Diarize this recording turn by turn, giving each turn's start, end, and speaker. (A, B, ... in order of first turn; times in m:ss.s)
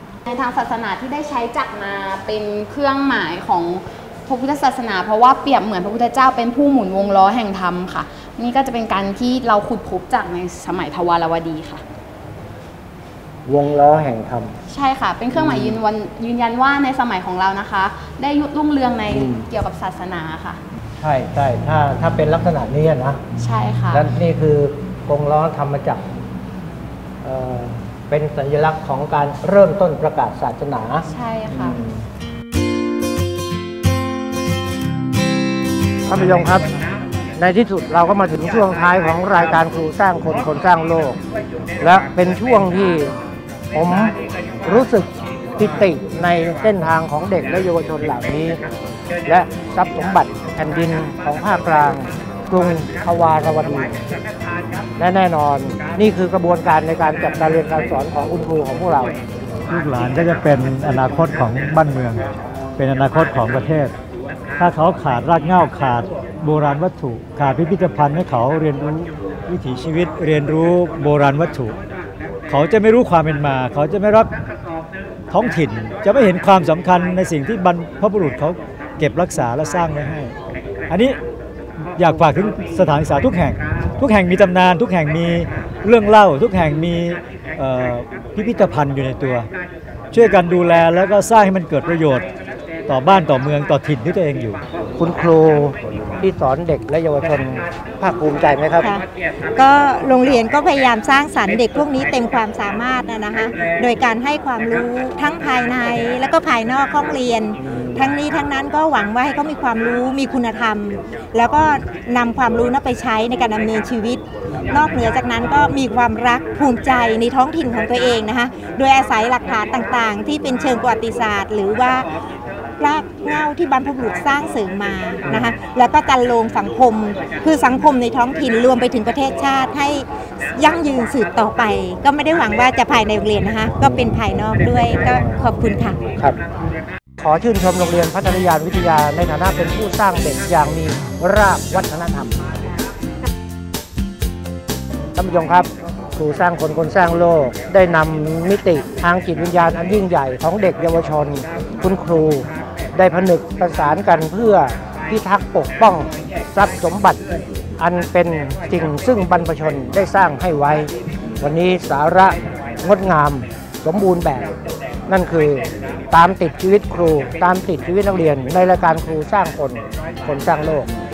0:00.2-0:11.8 A
0:13.5-0:14.6 B
0:14.7-0:20.6 A
0:15.3-0:15.8 B
0:19.1-0:19.4 B
0:21.0-0:23.2 B
0:23.4-0:24.0 A
0:23.9-0:26.1 B
0:27.2-0:32.0 B
0:31.1-0:31.8 A
0:36.1-0:36.7 B
0:37.4-0:41.2 B
0:41.8-0:43.1 B
0:43.7-0:48.6 B
0:49.3-0:54.0 B
0:55.0-0:59.2 B
0:59.7-1:02.2 C
1:02.8-1:03.9 C
1:04.6-1:11.8 C
1:12.5-1:14.3 C
1:15.3-1:20.4 C
1:20.9-1:21.2 C
1:22.0-1:29.5 C
1:30.1-1:32.2 C
1:32.9-1:34.6 C
1:35.0-1:38.9 B
1:38.8-1:39.0 D
1:39.6-2:02.1 D
2:02.8-2:16.0 D
2:05.3-2:05.5 B
2:13.8-2:14.1 B
2:17.2-2:22.5 B
2:25.2-2:37.2 B
2:37.8-2:44.5 B
2:45.1-2:50.9 B